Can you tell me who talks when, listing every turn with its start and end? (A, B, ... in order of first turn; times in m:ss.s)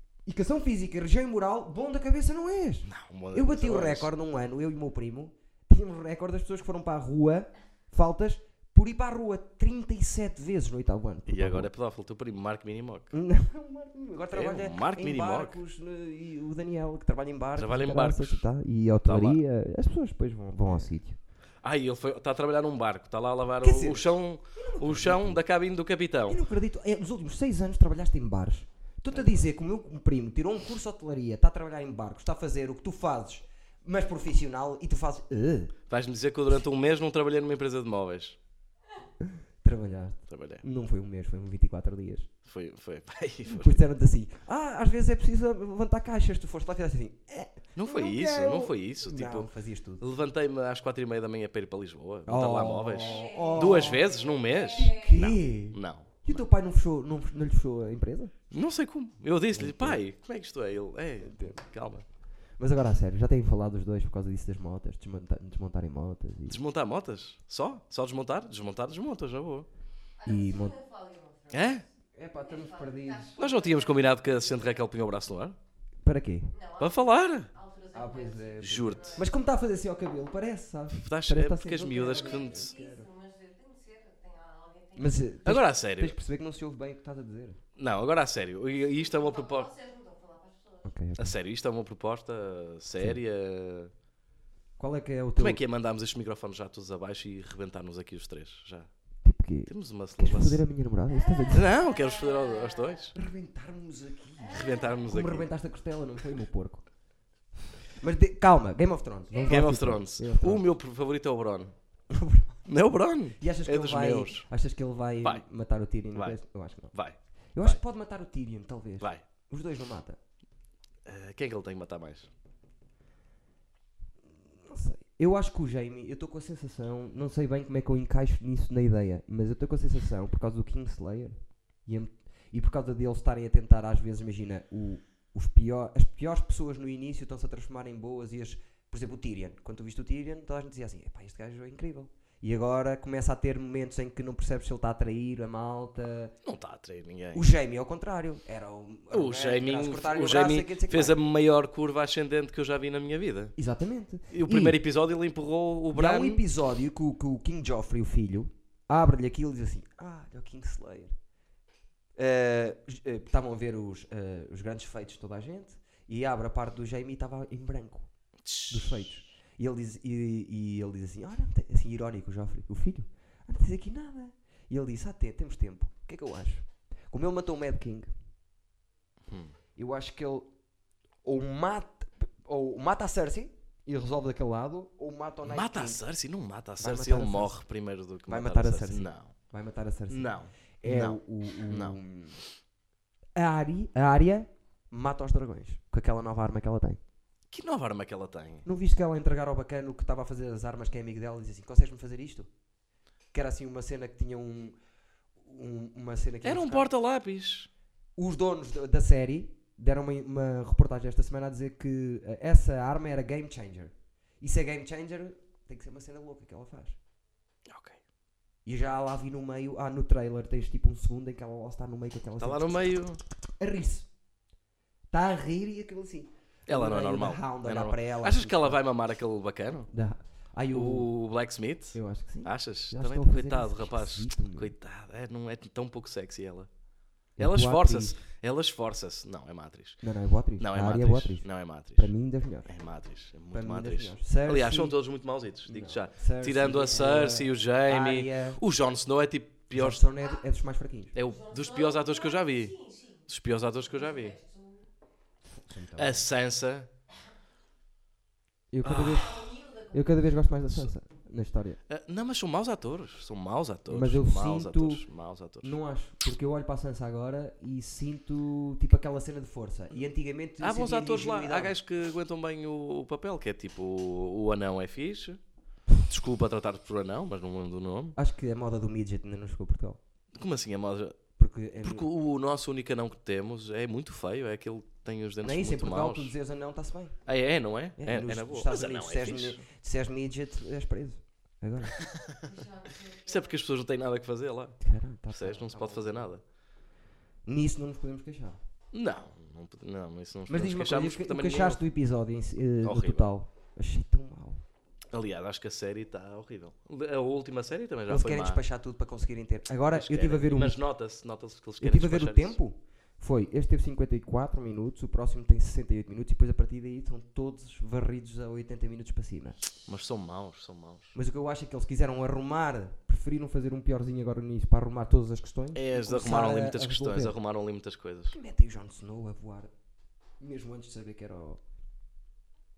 0:00.3-0:11.7 A
0:02.9-0:04.1 B
0:11.3-0:13.1 B
0:13.1-0:21.2 A
0:14.3-0:15.6 B
0:17.6-0:18.4 B
0:19.0-0:19.4 B
0:20.7-0:20.9 B
0:21.6-0:26.4 B
0:23.6-0:25.4 A
0:26.3-0:35.7 A
0:29.1-0:29.5 B
0:35.9-0:38.4 B
0:39.6-0:42.3 A
0:40.3-0:40.6 B
0:42.4-0:43.8 B
0:43.6-0:50.1 A
0:47.8-0:56.4 B
0:52.3-0:54.0 A
0:53.0-0:55.3 C
0:54.7-0:58.3 A
0:58.5-1:02.0 B
0:59.5-1:00.0 A
1:01.2-1:01.6 A
1:02.6-1:06.6 A
1:06.5-1:09.7 B
1:10.2-1:14.9 C
1:10.3-1:10.8 A
1:11.5-1:11.8 B
1:12.2-1:13.3 A
1:13.4-1:15.6 B
1:16.0-1:16.6 A
1:16.5-1:19.3 C
1:16.8-1:17.5 B
1:17.9-1:23.1 A
1:18.6-1:19.3 B
1:20.9-1:22.7 B
1:22.0-1:25.6 C
1:25.0-1:27.6 A
1:25.4-1:26.2 B
1:27.8-1:29.7 B
1:28.9-1:30.9 C
1:30.8-1:31.4 A
1:31.2-1:33.9 B
1:34.8-1:35.6 A
1:35.4-1:38.9 B
1:39.2-1:41.7 A
1:39.7-1:40.6 B
1:41.1-1:43.1 C
1:41.5-1:43.1 B
1:43.1-1:46.9 A
1:44.4-1:45.1 C
1:44.5-1:45.5 B
1:47.9-1:50.6 A
1:49.3-1:49.7 C
1:49.5-1:51.7 B
1:52.1-1:52.6 A
1:52.7-1:54.5 B
1:53.4-1:57.0 A
1:56.9-1:57.8 B
1:57.6-2:00.2 A
2:01.0-2:02.3 B
2:04.7-2:26.4 A
2:26.4-2:27.5 B
2:27.3-2:31.2 A
2:29.1-2:33.5 B
2:33.6-2:34.8 A
2:34.3-2:36.4 B
2:35.9-2:41.1 A
2:42.2-2:48.1 A
2:48.4-2:49.0 B
2:48.7-2:58.1 A
2:59.3-2:59.5 B
2:59.8-3:00.5 A
3:01.2-3:06.0 A
3:05.5-3:09.3 B
3:06.8-3:07.6 A
3:08.3-3:12.4 A
3:10.1-3:12.0 B
3:13.4-3:17.0 A
3:17.5-3:18.7 B
3:18.6-3:22.5 A
3:23.3-3:24.8 A
3:25.4-3:26.9 A
3:26.4-3:27.7 B
3:28.2-3:37.0 A
3:37.7-3:38.0 B
3:38.6-3:42.9 A
3:42.4-3:43.2 B
3:43.6-3:44.1 A
3:45.1-3:48.8 A
3:46.7-3:49.9 B
3:49.9-3:51.1 A
3:50.7-3:56.7 B
3:51.9-3:54.7 A
3:57.4-3:58.2 A
3:57.4-4:00.0 B
4:00.0-4:02.7 A
4:00.6-4:02.1 B
4:02.7-4:10.0 B
4:03.5-4:05.0 A
4:05.6-4:08.6 A
4:09.7-4:11.2 A
4:11.2-4:12.7 B
4:11.2-4:13.3 C
4:13.3-4:14.4 B
4:13.9-4:14.9 C
4:15.6-4:16.3 A
4:16.0-4:16.9 B
4:18.7-4:21.8 A
4:18.8-4:19.2 B
4:18.9-4:20.3 C
4:21.9-4:25.7 B
4:23.9-4:25.0 A
4:25.6-4:31.8 A
4:30.6-4:35.4 B
4:36.1-4:38.2 B
4:38.2-4:40.0 A
4:40.3-4:41.2 B
4:41.4-4:42.1 A
4:41.8-4:46.3 B
4:45.4-4:47.2 A
4:47.3-4:49.6 B
4:48.0-4:52.0 A
4:52.2-4:52.4 B
4:52.4-4:53.6 C
4:53.3-4:54.8 B
4:54.8-4:56.3 A
4:55.3-4:56.4 B
4:57.5-4:58.6 A
4:58.9-5:01.8 B
5:00.5-5:04.6 A
5:02.8-5:03.3 B
5:05.1-5:08.6 B
5:08.1-5:10.8 A
5:09.9-5:12.6 B
5:11.8-5:19.6 A
5:19.9-5:21.1 B
5:21.1-5:27.4 A
5:25.7-5:28.4 B
5:28.3-5:29.7 A
5:30.4-5:31.6 A